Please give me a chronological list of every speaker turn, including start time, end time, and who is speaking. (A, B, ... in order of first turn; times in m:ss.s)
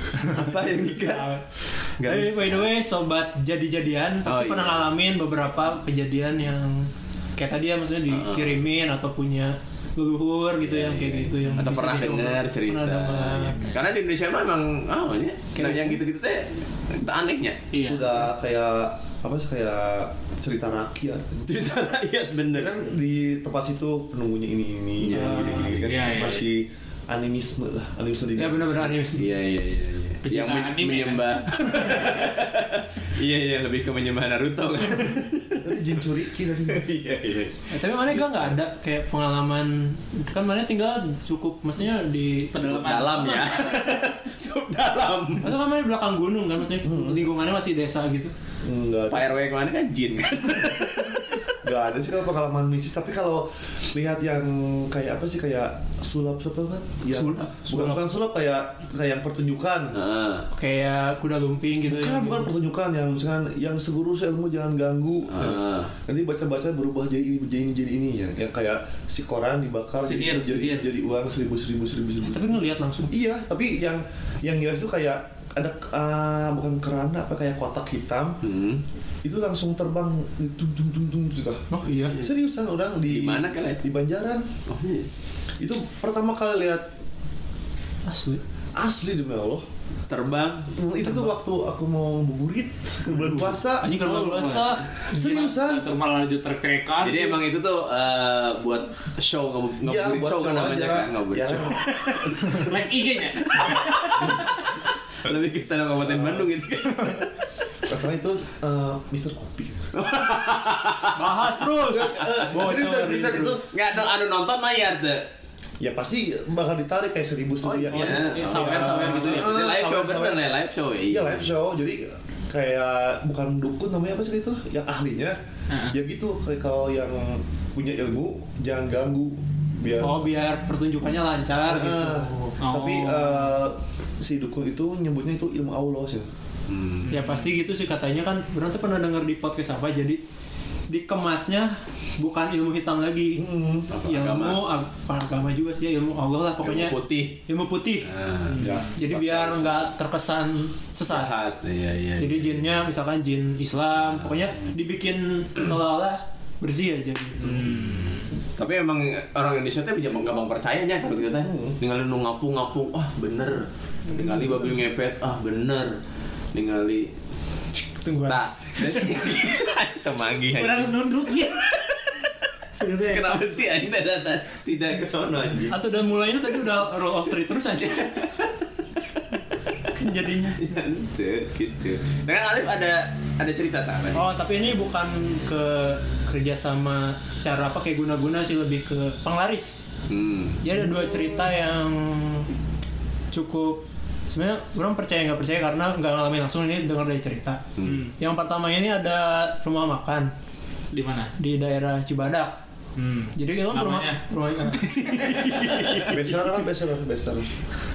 0:00.2-0:02.7 A
0:02.0-0:13.6 B
0:04.2-0:04.9 A
0:08.1-0:08.6 A
0:10.6-0:17.6 A
0:13.5-0:13.8 C
0:15.6-0:16.0 B
0:17.7-0:18.2 C
0:17.8-0:21.5 D
0:21.5-0:22.8 A
0:22.5-0:29.0 D
0:25.0-0:26.1 A
0:25.3-0:26.5 C
0:28.4-0:29.3 B
0:29.1-0:36.0 A
0:30.2-0:32.3 C
0:35.6-0:36.9 D
0:36.6-0:38.5 A
0:37.7-0:43.0 B
0:42.5-0:44.0 C
0:42.6-0:45.6 A
0:45.4-0:48.3 B
0:46.8-0:47.2 D
0:48.6-0:49.4 D
0:49.1-0:51.3 A
0:51.6-1:00.0 D
0:57.1-0:57.5 A
0:57.2-0:58.0 B
0:59.9-1:00.5 A
1:00.5-1:02.5 B
1:01.9-1:18.4 D
1:05.3-1:05.9 A
1:10.0-1:10.9 C
1:12.3-1:13.1 B
1:18.4-1:18.8 A
1:19.2-1:24.5 D
1:21.7-1:22.2 B
1:23.1-1:23.9 A
1:24.7-1:25.1 A
1:25.6-1:26.9 D
1:28.1-1:28.4 B
1:28.8-1:29.6 D
1:30.1-1:30.7 A
1:30.7-1:33.9 D
1:31.0-1:31.3 B
1:33.1-1:33.6 A
1:33.8-1:37.4 C
1:33.8-1:35.0 B
1:35.1-1:35.9 D
1:37.0-1:42.7 A
1:39.8-1:42.6 D
1:41.9-1:44.4 C
1:43.5-1:44.4 A
1:44.2-1:44.4 D
1:45.2-1:47.3 A
1:46.0-1:46.5 D
1:47.8-1:49.9 D
1:49.9-1:51.2 A
1:51.1-1:53.7 B
1:51.8-1:53.8 D
1:53.6-1:55.3 A
1:55.8-2:00.4 D
1:57.6-2:01.5 A
1:57.9-1:59.5 B
2:01.1-2:05.4 D
2:05.7-2:06.0 C
2:05.9-2:10.3 D
2:10.0-2:12.6 B
2:11.6-2:16.3 D
2:12.6-2:13.6 C
2:16.7-2:17.2 A
2:17.1-2:17.6 C
2:17.1-2:20.2 B
2:20.9-2:23.4 B
2:23.4-2:23.9 D
2:23.9-2:24.6 A
2:24.0-2:28.1 B
2:26.6-2:27.4 A
2:28.0-2:29.8 A
2:28.5-2:28.9 C
2:28.6-2:29.0 D
2:29.0-2:31.4 B
2:31.1-2:32.9 A
2:32.2-2:37.7 B
2:34.0-2:34.3 A
2:37.4-2:38.3 C
2:37.6-2:46.0 A
2:41.4-2:41.8 D
2:44.1-2:44.5 B
2:46.5-2:47.1 A
2:48.0-2:49.0 B
2:48.2-2:52.0 A
2:50.5-2:51.8 C
2:52.8-2:53.4 C
2:53.0-2:55.8 A
2:55.7-2:58.1 B
2:57.7-2:58.5 A
3:00.0-3:00.7 B
3:00.5-3:04.3 A
3:04.2-3:09.9 B
3:10.1-3:10.6 A
3:10.6-3:12.5 B
3:10.8-3:11.4 D
3:13.3-3:17.6 B
3:17.8-3:18.0 A
3:17.8-3:18.1 C
3:18.2-3:20.3 B
3:20.9-3:21.3 C
3:21.4-3:22.6 B
3:23.0-3:24.2 C
3:23.4-3:25.0 B
3:24.8-3:26.4 A
3:25.1-3:26.1 C
3:26.1-3:27.5 D